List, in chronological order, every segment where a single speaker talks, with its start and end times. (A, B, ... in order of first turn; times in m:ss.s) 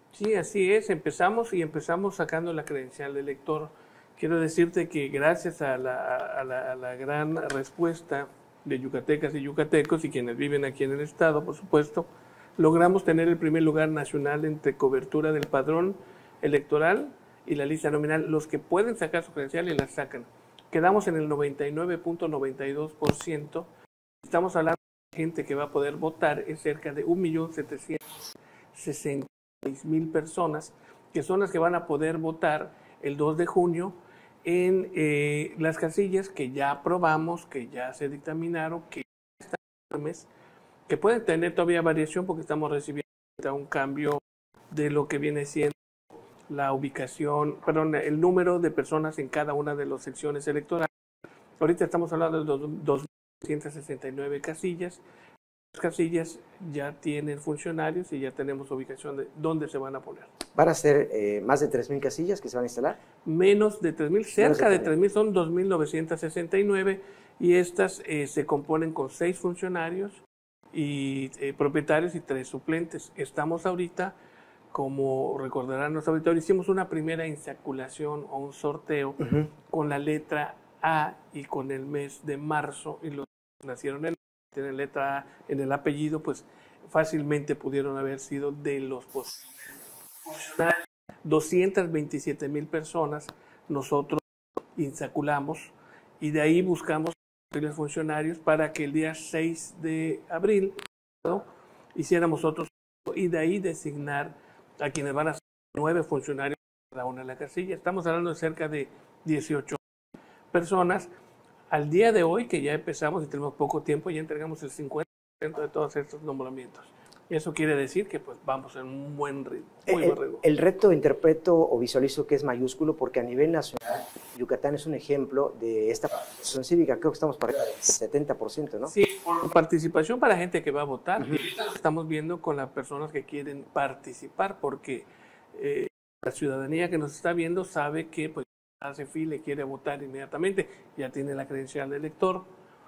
0:00.1-0:12.1 A
0:12.6-0:23.7 A
0:24.2-0:40.3 A
0:40.9-0:45.8 A
0:46.5-0:50.9 A
0:51.6-0:55.0 A
0:55.7-1:00.3 A
1:00.6-1:03.0 B
1:03.2-1:14.1 A
1:04.4-1:04.9 B
1:14.7-1:34.2 A
1:19.2-1:19.5 B
1:34.8-1:49.8 A
1:50.5-1:51.1 A
1:51.7-2:00.4 A
1:59.9-2:08.9 B
2:08.9-2:22.5 A